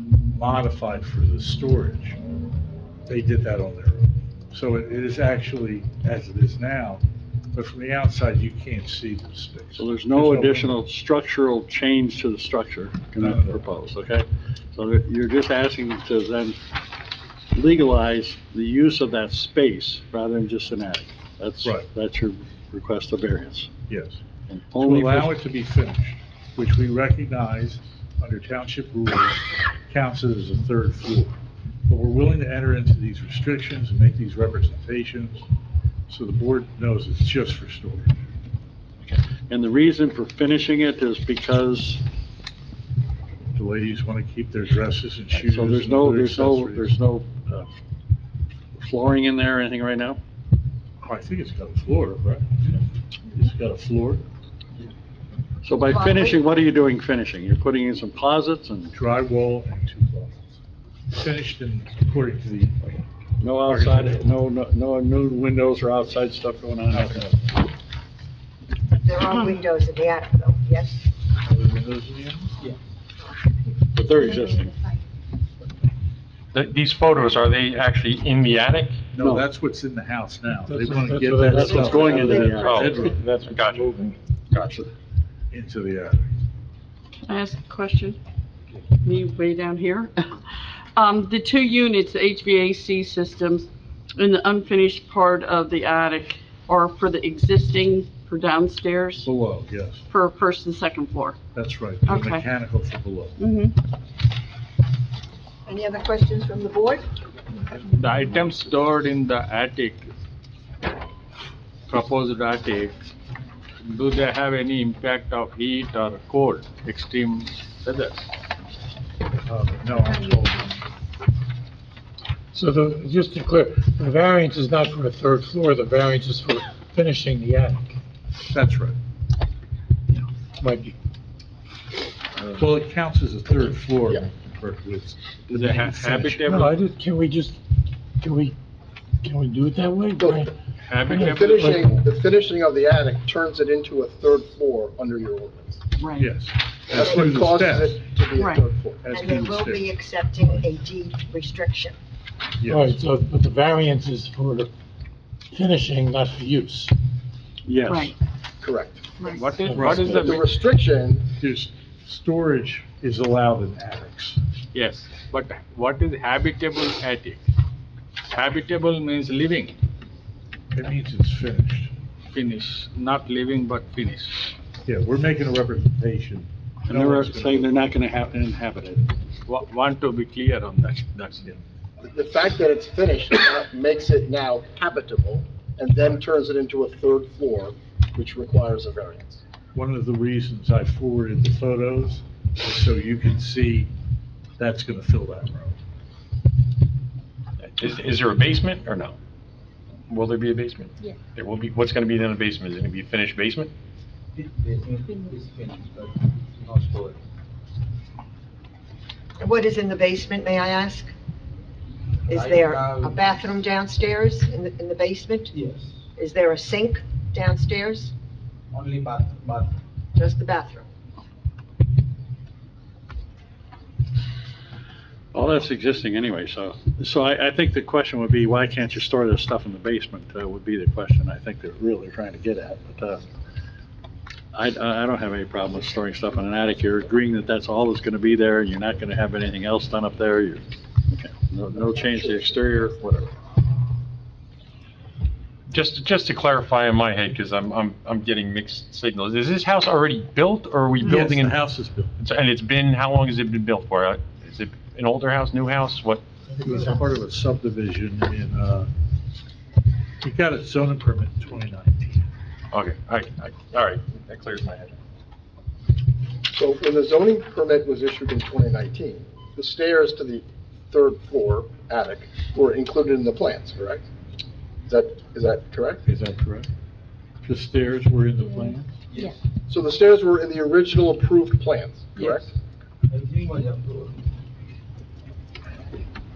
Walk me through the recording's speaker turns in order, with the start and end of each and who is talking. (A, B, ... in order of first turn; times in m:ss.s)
0:00.3-0:02.2 A
0:03.1-0:10.8 A
0:09.8-0:16.6 B
0:13.2-0:13.6 A
0:17.5-0:23.7 B
0:23.9-0:24.2 A
0:24.5-0:25.3 B
0:24.8-0:31.3 A
0:31.9-0:35.4 A
0:36.1-0:38.2 A
0:39.5-0:42.0 B
0:43.6-0:47.0 A
0:45.3-0:47.7 B
0:48.8-0:50.2 B
0:51.0-0:52.8 A
0:53.3-0:54.2 A
0:55.6-0:58.9 B
0:58.9-1:00.6 A
1:01.1-1:03.0 A
1:03.4-1:07.3 B
1:03.6-1:04.2 A
1:06.9-1:07.6 A
1:08.9-1:11.0 C
1:11.4-1:12.6 A
1:13.9-1:14.7 B
1:16.5-1:19.0 D
1:19.1-1:23.2 A
1:19.2-1:19.4 B
1:20.7-1:22.2 E
1:21.5-1:23.1 B
1:21.8-1:22.2 C
1:22.5-1:23.8 D
1:23.1-1:24.1 E
1:24.5-1:24.9 D
1:25.5-1:26.3 A
1:27.3-1:28.2 F
1:29.0-1:30.4 F
1:31.0-1:39.3 F
1:39.2-1:40.0 A
1:40.1-1:41.4 F
1:41.5-1:43.4 A
1:42.1-1:42.4 F
1:43.4-1:43.8 F
1:45.7-1:47.1 C
1:47.9-1:50.0 G
1:51.9-1:53.0 G
1:53.8-1:58.3 G
1:59.4-2:00.8 A
2:02.5-2:07.8 E
2:08.5-2:09.0 A
2:10.6-2:10.9 B
2:12.5-2:16.5 A
2:15.5-2:16.8 G
2:16.5-2:17.5 B
2:17.0-2:17.4 E
2:19.2-2:20.5 B
2:19.5-2:20.2 E
2:20.2-2:20.4 H
2:20.8-2:22.0 G
2:21.1-2:21.7 B
2:21.3-2:25.8 H
2:26.0-2:26.3 F
2:26.2-2:28.0 A
2:26.9-2:29.0 H
2:28.4-2:28.6 F
2:29.0-2:29.9 A
2:29.0-2:32.0 C
2:32.6-2:33.0 A
2:32.7-2:33.0 B
2:33.0-2:34.7 E
2:35.5-2:36.9 E
2:37.7-2:38.1 B
2:37.9-2:38.1 F
2:38.6-2:39.1 H
2:39.2-2:39.5 F
2:39.3-2:40.5 G
2:39.6-2:40.3 B
2:39.7-2:40.4 A
2:40.0-2:41.2 H
2:41.4-2:44.4 A
2:44.7-2:47.4 G
2:48.3-2:49.7 G
2:50.7-2:51.9 A
2:52.3-2:54.5 G
2:54.8-2:57.8 A
2:56.8-2:59.1 B
2:59.5-3:01.4 G
3:02.0-3:09.4 H
3:09.7-3:13.9 A
3:14.6-3:15.8 A
3:17.6-3:19.1 D
3:20.1-3:23.7 D
3:24.4-3:27.2 I
3:29.4-3:31.1 C
3:32.3-3:38.1 C
3:32.4-3:33.0 I
3:35.6-3:35.8 I
3:38.7-3:39.7 I
3:40.1-3:40.8 C
3:45.3-3:53.2 B
3:54.5-4:03.3 B
4:05.7-4:16.2 D
4:11.0-4:12.2 A
4:16.6-4:18.9 A
4:20.2-4:22.3 A
4:22.7-4:25.0 D
4:26.5-4:34.0 H
4:34.8-4:36.0 H
4:36.1-4:36.7 A
4:37.4-4:38.9 A
4:39.7-4:42.5 H
4:43.1-4:44.1 I